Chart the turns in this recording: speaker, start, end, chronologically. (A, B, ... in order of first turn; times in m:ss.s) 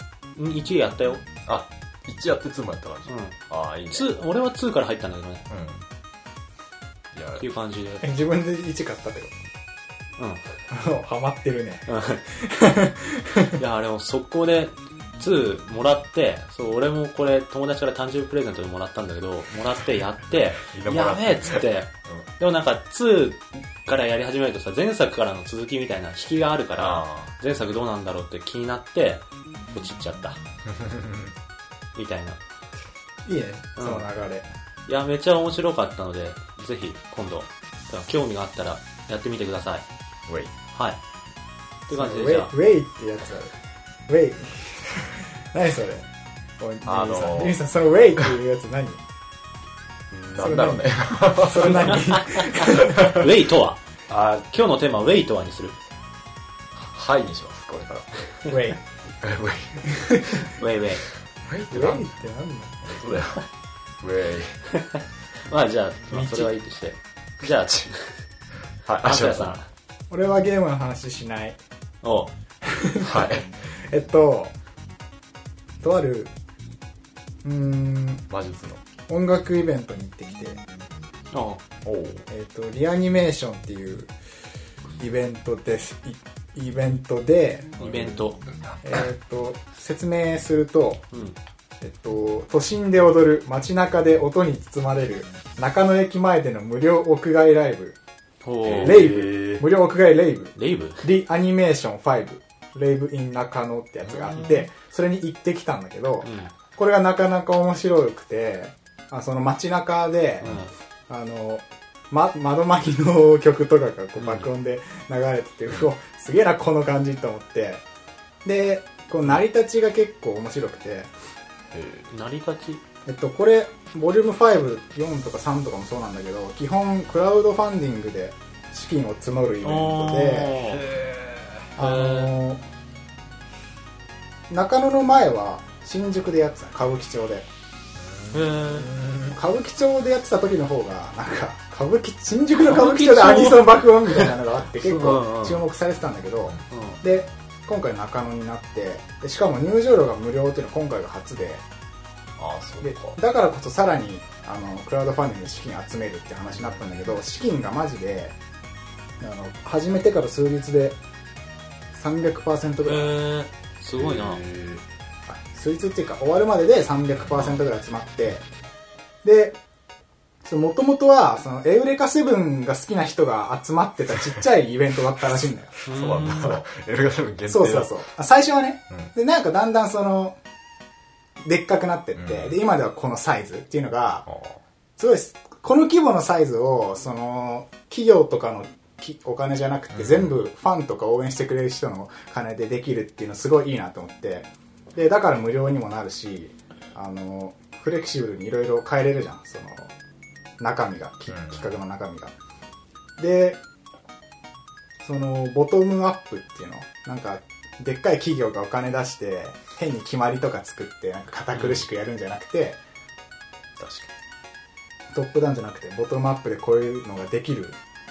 0:00.4-0:01.2 A
0:01.4-0:04.1 B
0:03.1-0:03.4 A
0:03.9-0:05.4 A
0:05.5-0:05.8 B
0:07.1-0:07.5 B
0:07.4-0:08.0 A
0:08.0-0:09.3 C
0:10.2-0:10.4 A
0:10.7-0:13.6 C
0:11.9-0:12.2 A
0:13.6-0:30.4 A
0:20.6-0:22.3 B
0:26.8-0:27.3 B
0:30.7-0:31.3 B
0:32.0-0:32.4 A
0:33.2-0:34.5 C
0:33.8-0:34.1 A
0:34.9-0:39.9 A
0:40.7-0:41.0 A
0:41.9-0:42.5 A
0:41.9-0:43.5 C
0:44.1-0:46.1 C
0:46.6-0:49.0 C
0:46.8-0:47.6 B
0:50.1-0:52.2 B
0:50.4-0:53.2 C
0:51.9-0:53.8 A
0:52.8-0:53.2 B
0:54.1-0:54.4 B
0:54.4-0:55.8 A
0:56.8-0:58.3 B
0:58.5-0:58.8 C
0:59.2-1:00.0 B
0:59.9-1:00.4 C
1:00.4-1:01.0 A
1:01.5-1:02.1 B
1:01.7-1:02.8 C
1:02.8-1:03.5 B
1:04.0-1:04.6 B
1:04.7-1:08.1 A
1:06.1-1:06.5 C
1:08.8-1:09.6 B
1:09.0-1:09.7 A
1:10.1-1:11.6 C
1:12.0-1:12.3 A
1:12.6-1:14.5 C
1:13.0-1:13.5 B
1:15.8-1:16.3 C
1:17.4-1:18.3 C
1:18.3-1:18.8 B
1:19.1-1:20.6 C
1:21.3-1:21.6 A
1:21.8-1:22.3 B
1:22.3-1:24.1 C
1:25.0-1:27.8 C
1:27.8-1:28.4 A
1:27.8-1:28.1 B
1:28.8-1:31.0 C
1:31.1-1:31.4 A
1:31.8-1:38.0 C
1:38.4-1:39.1 A
1:38.6-1:39.7 B
1:38.8-1:50.5 C
1:40.6-1:41.0 A
1:44.1-1:44.6 B
1:46.2-1:46.5 A
1:50.4-1:50.7 A
1:51.1-1:57.8 C
1:54.2-1:54.5 A
1:58.4-2:01.1 C
2:01.7-2:02.1 B
2:02.1-2:02.8 A
2:03.1-2:10.6 C
2:09.6-2:10.8 A
2:10.6-2:11.7 B
2:11.8-2:12.6 C
2:11.8-2:12.3 A
2:14.5-2:17.5 C
2:18.0-2:19.4 B
2:18.3-2:18.9 A
2:19.3-2:31.6 C
2:22.6-2:25.6 A
2:26.7-2:27.0 A
2:32.4-2:33.2 B
2:32.8-2:38.4 C
2:36.5-2:37.0 B
2:39.2-2:41.0 C
2:41.9-2:43.2 C
2:42.8-2:44.4 A
2:44.0-2:44.8 B
2:45.3-2:48.4 C
2:47.2-2:47.6 B
2:49.2-2:49.6 C
2:50.4-2:55.8 C
2:55.9-2:57.9 B
2:55.9-2:56.6 A
2:57.5-3:00.4 C
3:01.4-3:04.3 C
3:02.2-3:02.6 B
3:04.3-3:04.6 B
3:05.0-3:19.9 C
3:09.9-3:10.3 B
3:20.6-3:22.3 C
3:21.3-3:21.7 B
3:23.2-3:23.6 C
3:25.0-3:32.8 C
3:31.6-3:31.8 A
3:33.8-3:34.1 B
3:35.1-3:37.8 C